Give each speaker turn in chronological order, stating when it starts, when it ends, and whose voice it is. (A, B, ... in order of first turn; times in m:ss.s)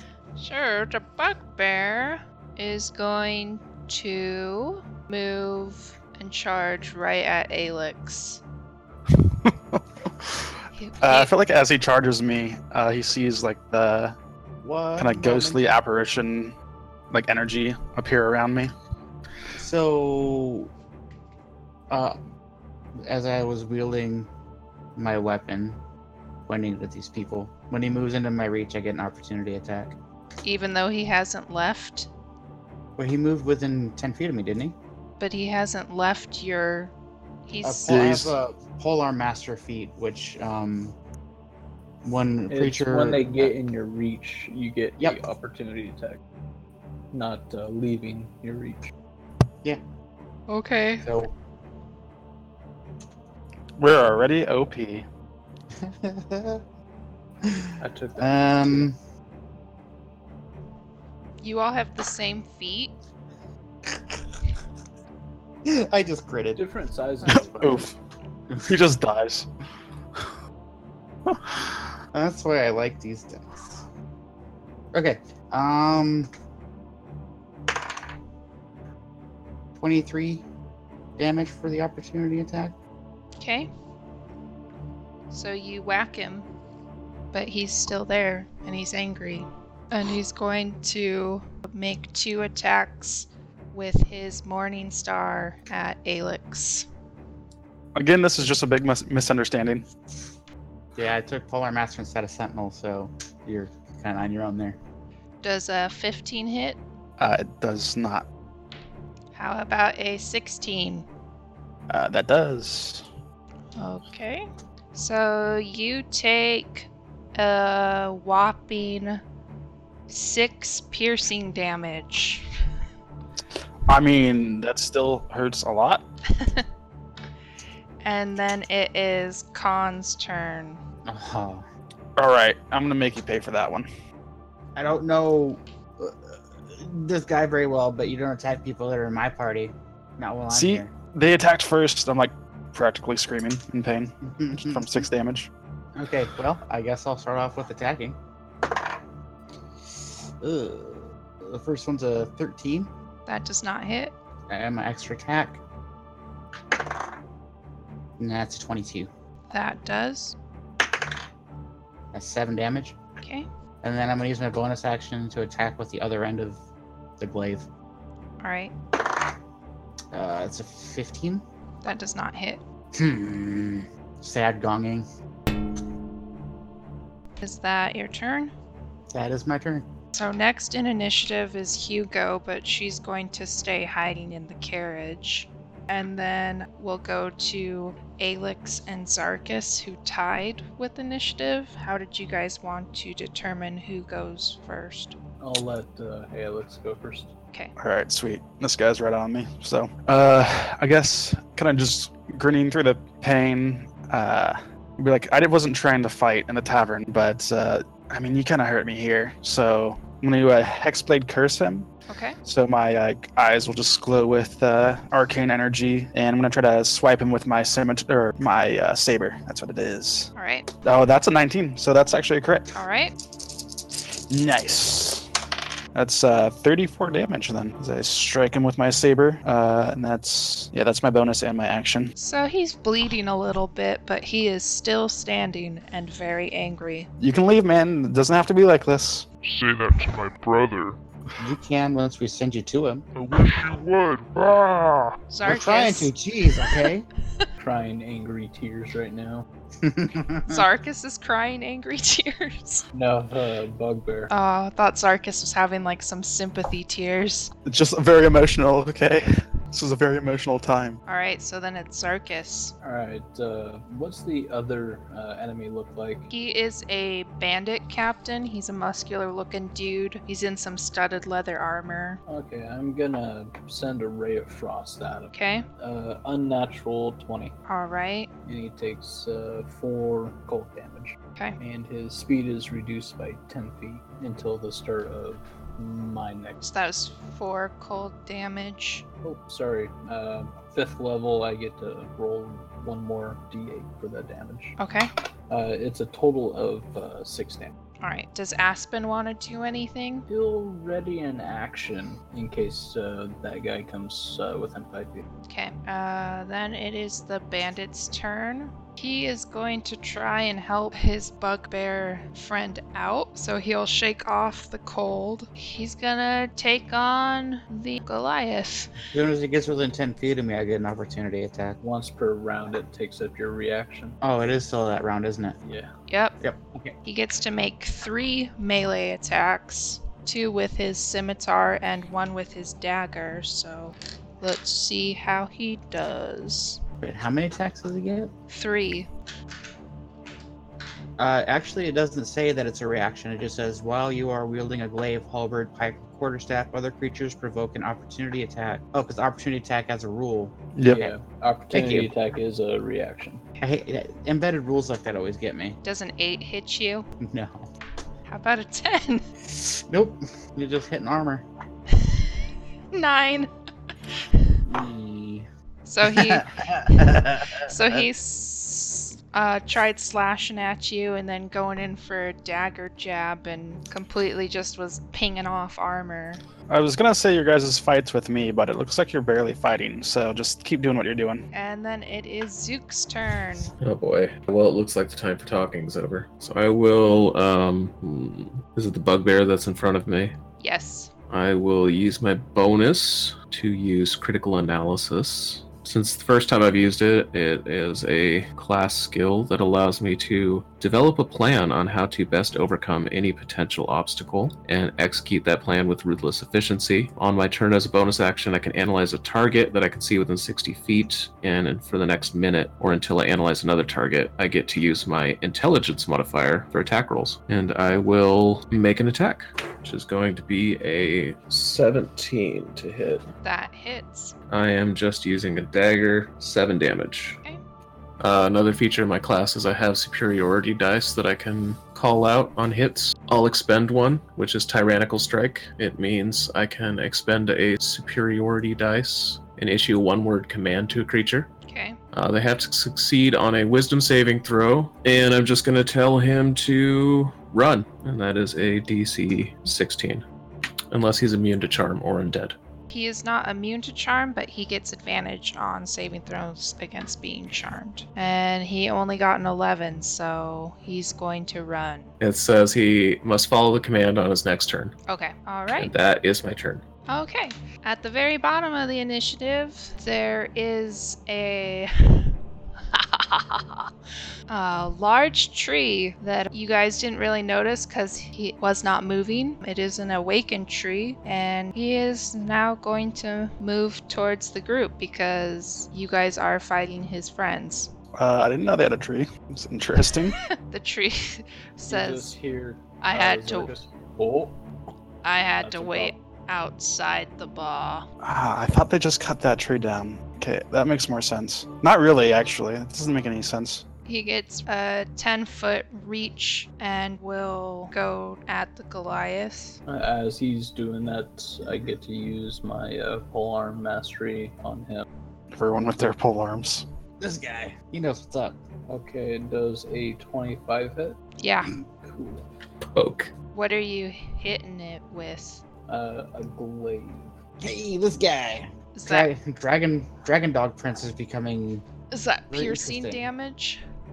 0:00.4-0:08.4 A
0:09.4-0:14.2 B
0:10.7-0:11.3 A
0:14.6-0:15.6 C
0:15.0-0:16.6 B
0:17.1-0:18.7 B
0:19.6-0:20.7 C
0:21.9-0:22.2 C
0:23.0-0:24.3 C
0:25.0-0:25.8 C
0:26.5-0:30.0 C
0:30.4-0:32.1 A
0:33.0-0:34.8 C
0:35.2-0:36.9 A
0:37.5-0:38.1 A
0:37.6-0:41.0 C
0:37.9-0:38.3 B
0:42.0-0:43.5 C
0:42.5-0:46.2 D
0:47.1-0:48.9 D
0:50.5-0:51.1 A
0:51.0-0:51.3 C
0:53.8-0:55.1 B
0:55.7-0:56.6 C
0:57.4-0:59.0 C
0:57.8-0:58.9 D
1:01.4-1:02.9 A
1:03.9-1:04.2 C
1:05.6-1:06.6 C
1:06.6-1:07.8 D
1:07.2-1:07.8 C
1:07.3-1:07.9 B
1:08.5-1:08.8 C
1:08.7-1:09.5 B
1:11.3-1:11.8 B
1:12.1-1:13.9 C
1:14.9-1:16.3 C
1:19.8-1:20.4 C
1:21.2-1:22.8 C
1:23.4-1:23.7 A
1:25.3-1:26.5 A
1:27.3-1:36.9 A
1:37.9-1:39.9 B
1:41.0-1:44.8 C
1:45.4-1:46.8 A
1:47.2-1:48.2 B
1:49.3-1:51.0 A
1:51.9-1:53.0 B
1:53.8-1:59.2 A
2:00.1-2:02.4 A
2:03.9-2:06.0 B
2:06.3-2:06.6 A
2:08.0-2:10.8 A
2:11.0-2:11.6 C
2:12.2-2:13.9 B
2:14.8-2:20.9 C
2:20.5-2:25.5 B
2:24.2-2:25.1 C
2:26.0-2:28.2 C
2:29.9-2:32.9 C
2:33.2-2:34.1 A
2:34.5-2:35.6 C
2:38.2-2:39.1 C
2:39.5-2:40.4 A
2:42.1-2:43.0 C
2:43.2-2:43.5 A
2:43.8-2:46.6 C
2:47.2-2:47.7 C
2:48.4-2:48.7 A
2:50.1-2:51.4 C
2:51.8-2:52.6 A
2:52.9-2:55.1 C
2:57.4-2:58.5 A
2:59.1-2:59.9 C
3:00.1-3:15.1 A
3:15.4-3:17.3 D
3:17.8-3:31.9 B
3:32.1-3:32.4 A
3:32.4-3:40.3 B
3:40.4-3:40.7 A
3:40.8-3:42.8 B
3:42.7-3:43.1 A
3:44.3-3:45.3 B
3:45.9-3:52.1 B
3:52.2-3:57.1 A
3:57.2-3:59.3 B
3:59.4-4:01.0 E
4:01.4-4:03.0 C
4:03.1-4:05.2 E
4:05.3-4:06.9 A
4:05.4-4:07.0 C
4:07.6-4:09.4 D
4:09.8-4:10.6 C
4:10.5-4:12.8 A
4:12.9-4:14.3 D
4:14.3-4:17.5 A
4:17.6-4:21.0 B
4:21.0-4:22.7 A
4:22.8-4:26.3 D
4:26.3-4:32.2 A
4:32.2-4:37.5 D
4:35.3-4:35.6 A
4:37.7-4:38.3 A
4:38.4-4:46.7 D
4:46.6-4:49.0 A
4:49.2-4:54.8 D
4:54.8-4:55.1 A
4:55.5-4:57.7 D
4:58.0-5:00.2 A
5:00.3-5:05.3 D
5:05.5-5:18.9 A
5:19.1-5:21.8 C
5:21.8-5:24.2 D
5:24.2-5:25.6 C
5:25.6-5:25.9 D
5:26.1-5:26.4 A
5:26.4-5:26.9 C
5:27.0-5:36.8 A
5:37.0-5:38.3 C
5:38.5-5:39.1 A
5:41.2-5:51.1 C
5:50.8-5:51.0 B
5:50.9-5:53.4 D
5:51.7-5:52.1 C
5:53.6-5:55.8 C
5:55.8-5:57.1 A
5:57.2-5:57.6 C
5:58.3-5:59.2 A
5:59.4-6:01.4 C
6:01.9-6:02.3 A
6:02.9-6:03.5 A
6:04.6-6:05.5 C
6:05.8-6:16.4 A
6:06.0-6:08.1 C
6:16.7-6:21.4 B
6:21.5-6:23.7 A
6:23.8-6:30.3 F
6:30.6-6:31.1 A
6:31.3-7:03.3 F
7:03.4-7:04.3 A
7:04.5-7:07.4 F
7:08.2-7:21.5 F
7:21.7-7:22.0 A
7:22.1-7:30.2 F
7:30.9-7:32.6 F
7:32.9-7:42.1 A
7:42.2-7:44.9 F
7:45.1-7:45.9 A
7:45.8-7:46.8 F
7:47.1-7:52.4 A
7:52.9-7:53.9 A
7:54.5-8:07.9 A
8:08.2-8:10.4 B
8:10.3-8:12.3 A
8:11.9-8:14.6 D
8:13.0-8:13.7 A
8:15.2-8:18.1 A
8:15.6-8:16.1 D
8:18.2-8:23.8 B
8:24.0-8:29.8 A
8:29.8-8:35.0 D
8:35.5-8:36.8 B
8:37.2-8:38.6 C
8:38.9-8:41.2 D
8:41.4-8:41.7 A
8:42.0-8:42.4 D
8:42.9-8:43.3 F
8:43.5-8:45.6 A
8:45.9-8:47.3 D
8:47.6-8:51.8 C
8:48.9-8:49.3 A
8:52.1-8:53.8 A
8:52.5-8:53.3 C